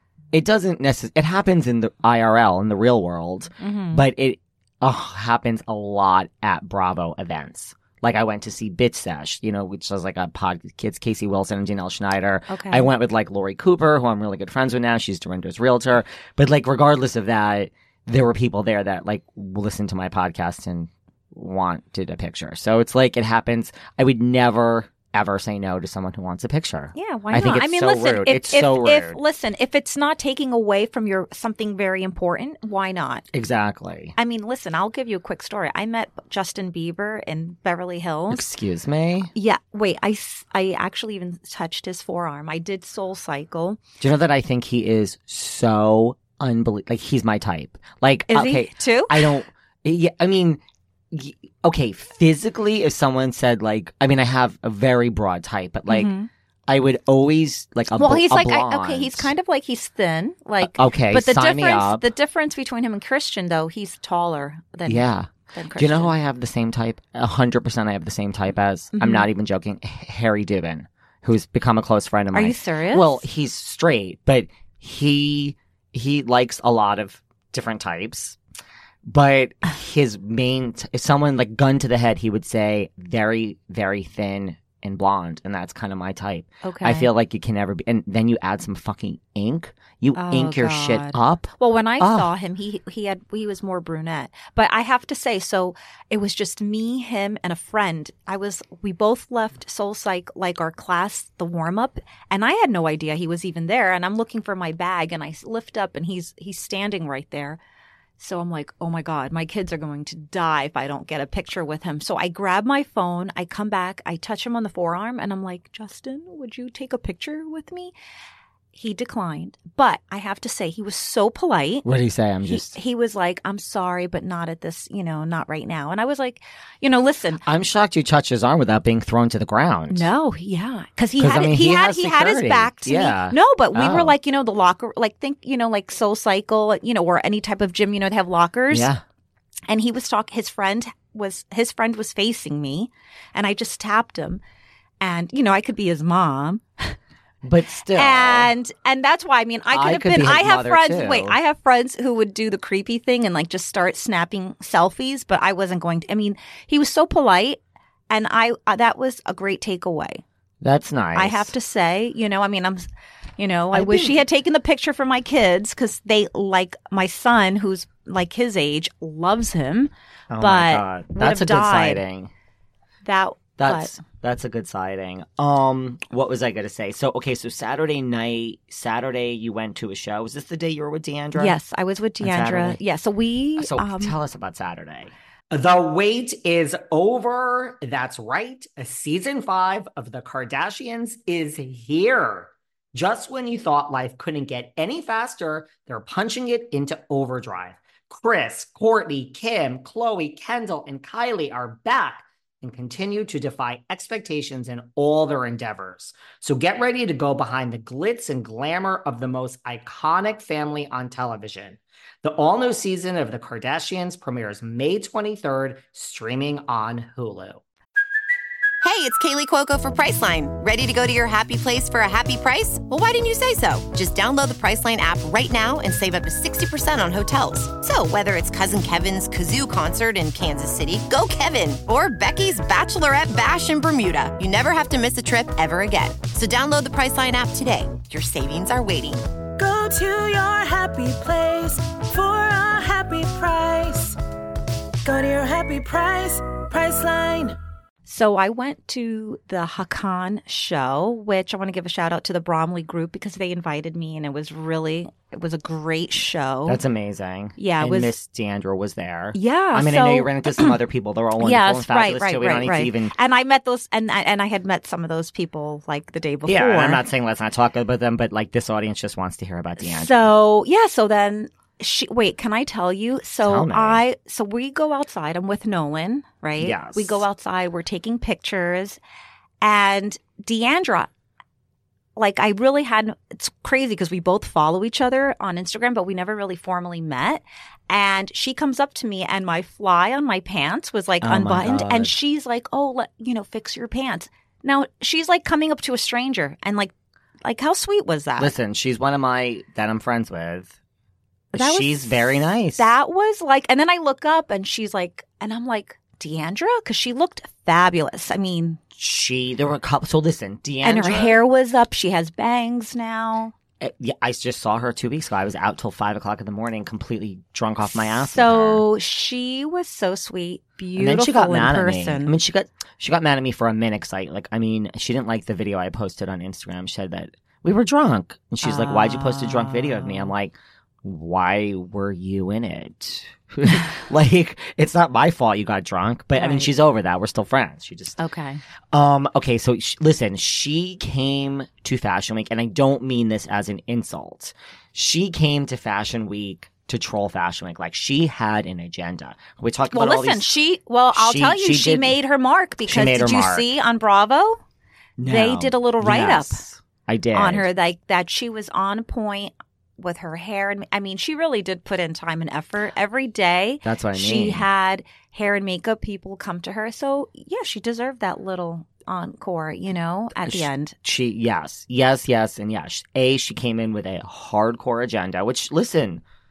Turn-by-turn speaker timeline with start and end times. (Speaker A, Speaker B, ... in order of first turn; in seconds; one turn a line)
Speaker A: 0.3-29.2
Speaker B: 3.6-4.1
Speaker B: 12.5-12.9
Speaker B: 26.9-33.2
Speaker A: 33.3-34.1
Speaker B: 34.2-38.5
Speaker A: 38.3-39.3
Speaker B: 39.3-43.8
Speaker A: 44.0-56.1
Speaker B: 48.3-49.4
Speaker B: 55.9-56.3
Speaker A: 56.7-59.3
Speaker B: 58.0-66.1
Speaker A: 60.6-62.0
Speaker A: 64.9-78.4
Speaker B: 68.9-69.3
Speaker B: 72.3-73.2
Speaker A: 79.1-92.3
Speaker B: 86.6-87.1
Speaker B: 90.2-107.6
Speaker B: 108.2-117.9
Speaker B: 118.7-121.9
Speaker A: 121.8-122.8
Speaker B: 122.5-127.4
Speaker A: 127.4-130.1
Speaker B: 129.9-138.9
Speaker A: 131.2-134.2
Speaker A: 138.7-139.0
Speaker B: 139.7-144.4
Speaker B: 145.0-147.0
Speaker A: 147.4-148.5
Speaker B: 147.9-157.6
Speaker A: 149.7-151.4
Speaker B: 158.1-160.2
Speaker A: 160.6-161.5
Speaker B: 161.2-162.9
Speaker B: 163.4-172.0
Speaker A: 163.7-164.2
Speaker A: 170.3-172.3
Speaker B: 173.0-173.9
Speaker A: 173.6-181.6
Speaker B: 181.3-184.1
Speaker A: 182.2-182.8
Speaker A: 183.6-217.6
Speaker C: 218.8-239.2
Speaker D: 239.6-244.2
Speaker D: 245.0-247.6
Speaker B: 248.1-256.8
Speaker A: 256.7-263.1
Speaker B: 257.6-258.1
Speaker B: 259.3-260.8
Speaker B: 261.4-267.0
Speaker A: 266.5-270.3
Speaker B: 269.8-279.0
Speaker A: 273.4-274.0
Speaker A: 276.6-277.2
Speaker B: 279.6-281.1
Speaker B: 282.2-296.9
Speaker A: 291.2-292.1
Speaker B: 297.4-298.5
Speaker A: 298.4-300.7
Speaker B: 301.5-308.8
Speaker A: 301.5-302.9
Speaker A: 309.0-311.4
Speaker B: 310.8-313.5
Speaker A: 313.8-318.9
Speaker B: 317.9-322.4
Speaker A: 321.0-338.2
Speaker B: 328.6-330.3
Speaker B: 336.4-336.7
Speaker B: 338.2-338.6
Speaker A: 338.9-350.6
Speaker B: 349.9-354.6
Speaker A: 351.1-352.2
Speaker A: 352.9-353.7
Speaker A: 355.2-357.7
Speaker B: 355.3-356.6
Speaker B: 357.3-370.9
Speaker A: 363.8-364.7
Speaker A: 370.5-376.2